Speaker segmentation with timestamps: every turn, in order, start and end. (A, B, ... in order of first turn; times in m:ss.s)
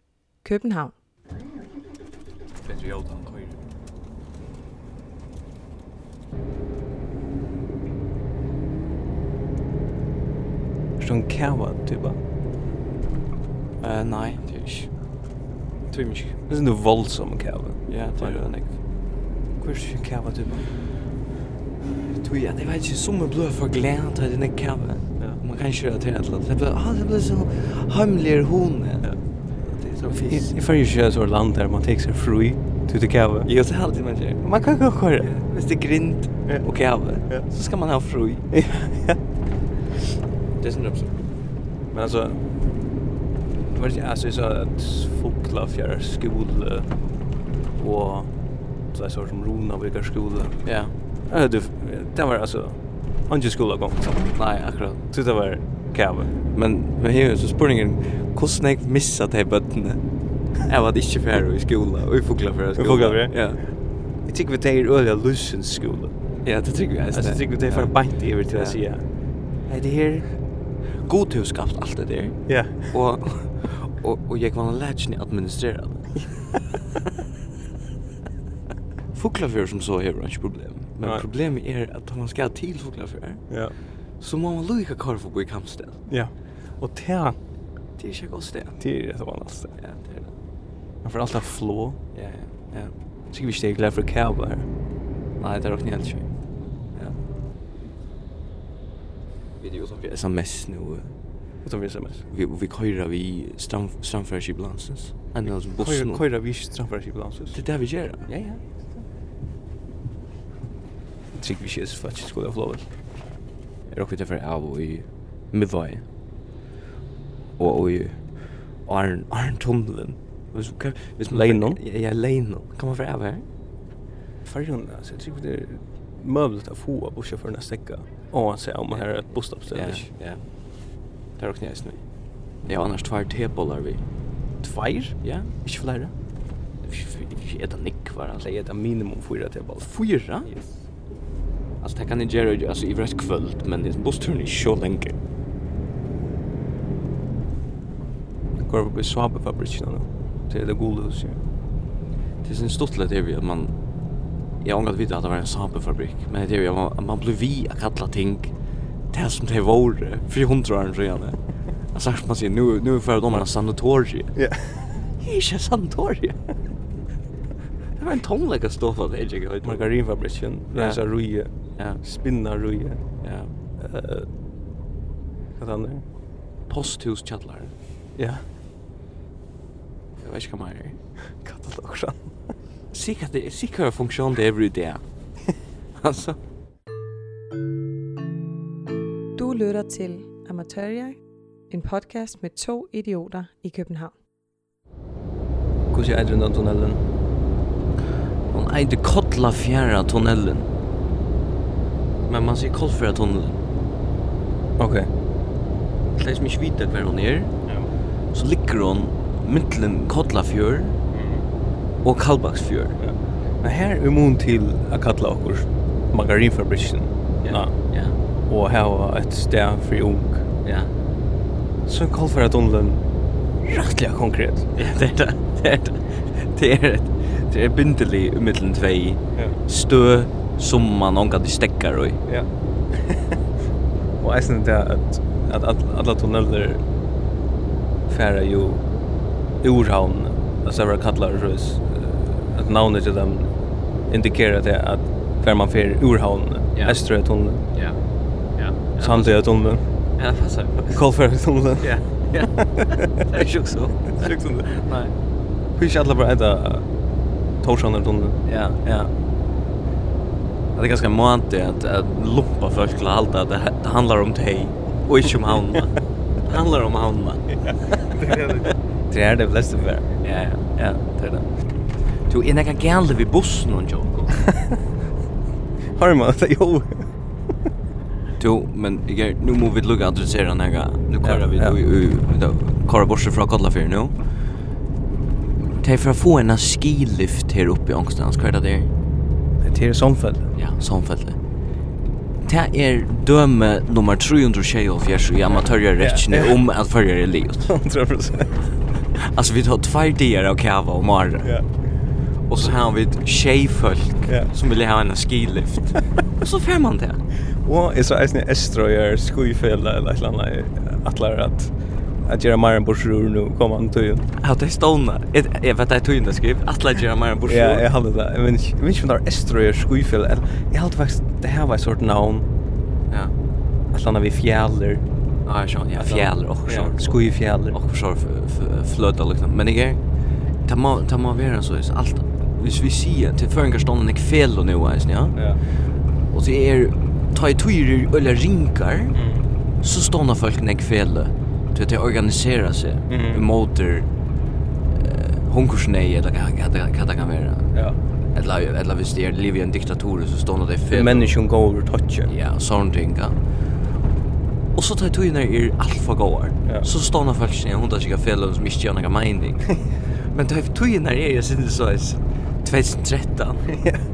0:00.4-0:01.0 A
0:02.7-0:03.5 B
0:11.0-0:12.2 C
0:13.8-0:14.9 B
0:15.9-0:16.4 B
0:16.5-0:18.5 C
0:17.9-0:18.8 B
0:19.6-0:20.7 C
0:22.1-0:29.1 B
0:29.6-0:30.6 B
0:30.1-0:33.5 C
0:33.4-0:34.4 B
0:34.4-0:35.3 C
0:35.2-0:38.5 B
0:38.5-0:39.2 C
0:40.6-0:41.2 B
0:41.9-0:42.4 C
0:43.7-0:46.9 C
0:47.8-0:48.3 C
0:48.9-0:50.6 C
0:50.6-0:50.9 B
0:51.3-0:54.3 C
0:54.4-0:55.0 B
0:55.1-0:56.3 C
0:56.5-1:03.6 B
1:02.8-1:03.7 C
1:04.3-1:06.1 C
1:06.4-1:07.9 B
1:07.1-1:09.0 C
1:08.5-1:08.8 B
1:09.7-1:10.3 B
1:11.0-1:16.2 B
1:12.5-1:12.9 C
1:19.1-1:23.4 B
1:21.0-1:21.3 C
1:23.5-1:23.8 C
1:24.2-1:26.0 B
1:26.1-1:27.4 C
1:28.0-1:28.8 B
1:28.8-1:29.8 C
1:29.8-1:30.3 B
1:31.0-1:32.0 C
1:32.1-1:32.9 B
1:33.3-1:34.7 C
1:35.4-1:36.3 B
1:39.6-1:41.2 B
1:41.6-1:42.2 C
1:42.3-1:46.2 B
1:45.6-1:47.6 C
1:47.5-1:48.4 B
1:48.3-1:48.6 C
1:51.4-1:52.9 C
1:53.9-1:56.0 B
1:57.6-2:03.4 B
2:01.3-2:01.8 C
2:04.4-2:10.1 C
2:09.7-2:10.4 B
2:11.4-2:12.0 B
2:12.7-2:14.0 B
2:14.6-2:16.1 C
2:15.2-2:15.5 B
2:16.8-2:18.5 B
2:18.4-2:19.9 C
2:19.8-2:20.5 B
2:21.8-2:25.2 B
2:28.6-2:31.4 C
2:32.4-2:33.7 B
2:34.6-2:38.5 B
2:39.1-2:41.4 B
2:41.9-2:44.3 B
2:44.4-2:45.1 C
2:45.2-2:46.4 B
2:48.0-2:49.9 B
2:49.6-2:51.5 C
2:50.7-2:51.0 B
2:52.0-2:53.0 C
2:53.2-2:53.5 B
2:53.8-2:54.3 C
2:55.6-2:56.0 C
2:56.7-2:57.7 B
2:58.2-2:58.4 C
3:00.2-3:01.0 B
3:01.4-3:02.2 C
3:02.9-3:05.0 B
3:06.0-3:06.4 B
3:09.4-3:11.2 A
3:11.7-3:14.1 A
3:15.9-3:17.0 C
3:18.5-3:20.7 B
3:22.3-3:23.6 B
3:24.8-3:25.1 C
3:26.2-3:27.5 B
3:28.3-3:31.0 B
3:31.1-3:31.4 C
3:32.0-3:33.0 B
3:33.0-3:37.8 C
3:37.4-3:38.2 B
3:38.5-3:40.5 C
3:40.6-3:40.9 B
3:41.9-3:43.0 C
3:43.7-3:44.7 C
3:44.8-3:52.4 B
3:54.2-3:56.8 C
3:58.1-3:58.8 C
3:59.6-4:03.5 C
4:04.1-4:07.6 C
4:06.8-4:07.0 B
4:07.7-4:08.0 B
4:08.6-4:09.4 B
4:09.0-4:09.8 C
4:10.2-4:11.0 B
4:10.9-4:13.2 C
4:11.8-4:15.1 B
4:14.2-4:14.8 C
4:15.8-4:16.9 C
4:17.6-4:18.4 C
4:18.5-4:19.1 B
4:20.8-4:27.6 B
4:27.7-4:30.1 C
4:28.3-4:28.6 B
4:30.2-4:31.5 B
4:32.3-4:34.4 B
4:36.0-4:37.1 C
4:38.4-4:44.2 B
4:41.2-4:41.8 C
4:45.7-4:48.9 B
4:49.6-4:50.5 C
4:50.6-4:51.4 B
4:52.4-4:57.7 B
4:56.0-4:56.6 C
4:57.7-4:58.7 C
4:59.1-5:01.6 B
5:02.5-5:07.2 B
5:07.7-5:11.7 C
5:12.3-5:14.3 C
5:14.4-5:17.8 B
5:17.5-5:22.5 C
5:23.9-5:25.0 C
5:25.5-5:30.0 B
5:26.0-5:27.8 C
5:30.6-5:35.6 B
5:36.3-5:39.2 B
5:39.1-5:39.5 C
5:39.8-5:44.1 B
5:43.1-5:43.4 C
5:44.9-5:47.7 B
5:48.3-5:51.4 B
5:50.9-5:52.3 C
5:52.3-5:53.4 B
5:54.8-5:59.7 B
6:00.2-6:03.7 B
6:03.7-6:04.0 C